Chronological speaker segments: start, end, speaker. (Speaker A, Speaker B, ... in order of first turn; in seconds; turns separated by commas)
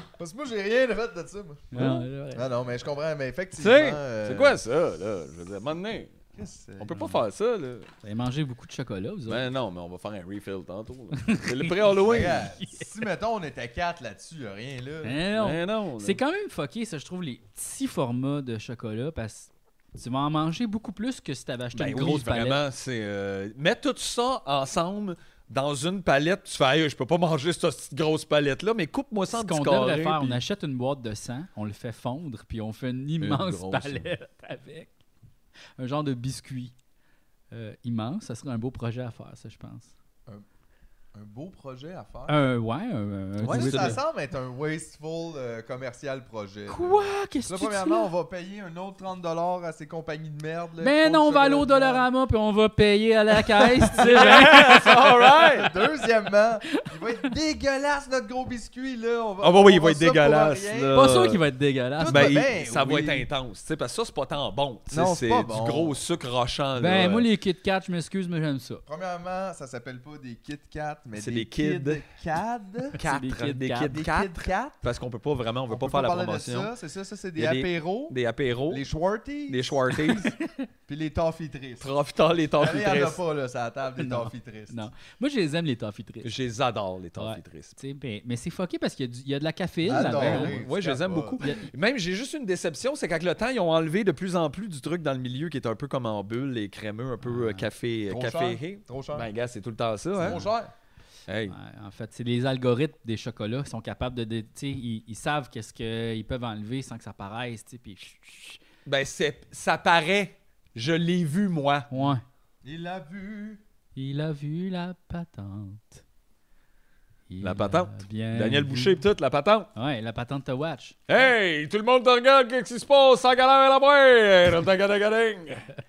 Speaker A: 0.2-1.8, Speaker B: 1.7-2.5, Speaker C: 1.8-2.1, Speaker A: 2.3-4.6, Speaker C: 3.6-6.1, Speaker A: 6.4-7.0, Speaker C: 6.8-7.9, Speaker B: 8.0-9.5, Speaker C: 9.3-12.5, Speaker B: 11.3-11.9, Speaker A: 12.0-15.2, Speaker B: 12.6-12.8, Speaker B: 15.0-22.6, Speaker C: 15.4-16.2, Speaker C: 21.7-30.4, Speaker B: 29.3-34.9, Speaker C: 33.2-34.1, Speaker B: 35.8-36.7, Speaker B: 37.5-39.9, Speaker A: 41.1-42.5, Speaker B: 42.3-44.0, Speaker C: 43.4-44.0, Speaker A: 43.4-52.1, Speaker B: 46.7-48.1, Speaker B: 50.8-55.1, Speaker A: 53.6-61.0, Speaker C: 54.0-55.7, Speaker C: 59.4-61.4, Speaker B: 60.9-62.5, Speaker A: 62.0-63.3, Speaker C: 62.1-67.3, Speaker A: 64.9-66.0, Speaker B: 66.8-68.8, Speaker A: 68.9-73.0, Speaker C: 71.2-72.0, Speaker C: 73.0-76.7, Speaker B: 73.0-74.0, Speaker A: 73.9-74.8, Speaker A: 75.7-78.2, Speaker C: 77.4-78.9, Speaker A: 78.7-79.8, Speaker C: 79.5-80.3, Speaker A: 80.9-81.9, Speaker C: 81.8-83.2, Speaker A: 82.6-84.9, Speaker B: 84.0-86.3, Speaker C: 86.2-87.8, Speaker B: 87.2-90.6, Speaker A: 89.8-91.4, Speaker C: 89.9-100.5, Speaker B: 91.4-91.7, Speaker B: 97.2-97.7, Speaker A: 98.1-99.3, Speaker A: 100.2-100.7, Speaker C: 101.3-101.5, Speaker B: 101.5-108.6, Speaker C: 108.9-111.9, Speaker B: 111.9-112.2, Speaker A: 112.6-113.6, Speaker B: 114.0-116.0, Speaker B: 117.3-119.0, Speaker C: 117.4-119.7, Speaker B: 119.8-121.0, Speaker C: 121.1-125.7